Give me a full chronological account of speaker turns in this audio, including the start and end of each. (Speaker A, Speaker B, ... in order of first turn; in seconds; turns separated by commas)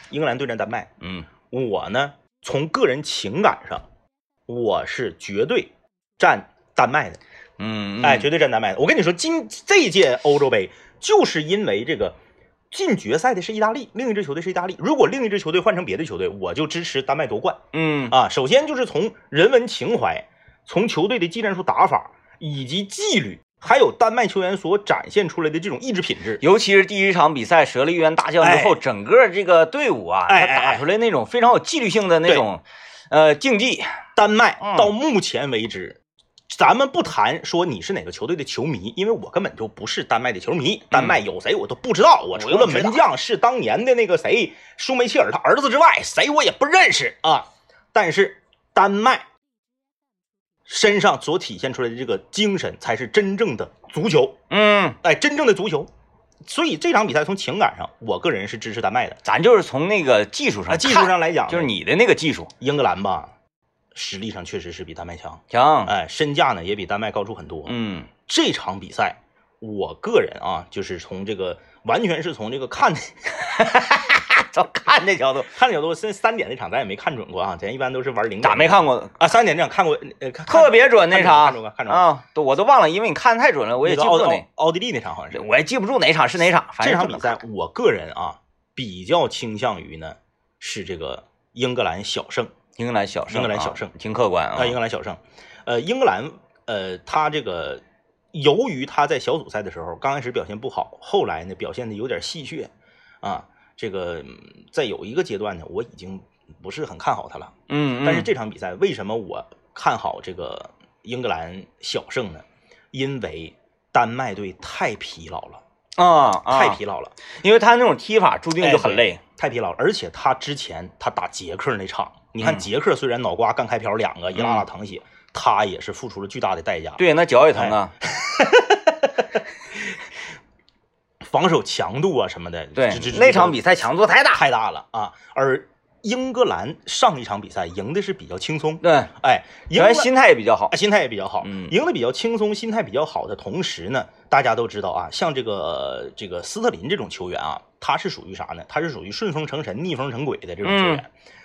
Speaker A: 0.1-0.9, Speaker B: 1.0-1.3, Speaker A: 1.5-3.9, Speaker A: 4.5-7.2, Speaker B: 7.6-8.3, Speaker A: 8.0-12.2, Speaker A: 12.7-17.6, Speaker B: 17.7-18.1, Speaker A: 18.1-26.4, Speaker B: 26.4-33.9, Speaker A: 28.4-28.8, Speaker A: 30.3-30.8, Speaker A: 34.1-36.0, Speaker B: 34.6-34.9, Speaker A: 36.5-49.2, Speaker B: 40.9-41.2, Speaker B: 42.4-43.0, Speaker A: 50.7-54.4, Speaker B: 54.5-55.0, Speaker A: 55.0-55.9, Speaker A: 56.4-59.2, Speaker B: 59.2-62.5, Speaker A: 60.7-61.7, Speaker A: 62.6-63.3, Speaker A: 63.9-67.7, Speaker B: 65.5-65.9, Speaker B: 67.7-68.1, Speaker A: 68.3-73.3, Speaker B: 73.4-75.5, Speaker A: 75.5-82.1, Speaker B: 78.4-79.2, Speaker B: 80.5-84.5, Speaker A: 83.8-85.5, Speaker B: 85.3-87.4, Speaker A: 86.8-92.5, Speaker B: 92.8-94.8, Speaker A: 93.3-93.9, Speaker A: 94.6-97.8, Speaker A: 98.3-102.7, Speaker A: 103.2-115.6, Speaker B: 107.7-108.3, Speaker B: 116.0-116.8, Speaker A: 116.5-117.2, Speaker B: 117.3-119.2, Speaker A: 118.6-127.0, Speaker B: 124.3-124.7, Speaker B: 127.0-127.9, Speaker A: 127.6-129.0, Speaker A: 131.3-133.6, Speaker B: 132.8-134.4, Speaker A: 134.3-140.1, Speaker B: 138.8-139.1, Speaker B: 139.7-140.7, Speaker A: 140.7-151.1, Speaker B: 141.4-141.7, Speaker B: 150.6-151.0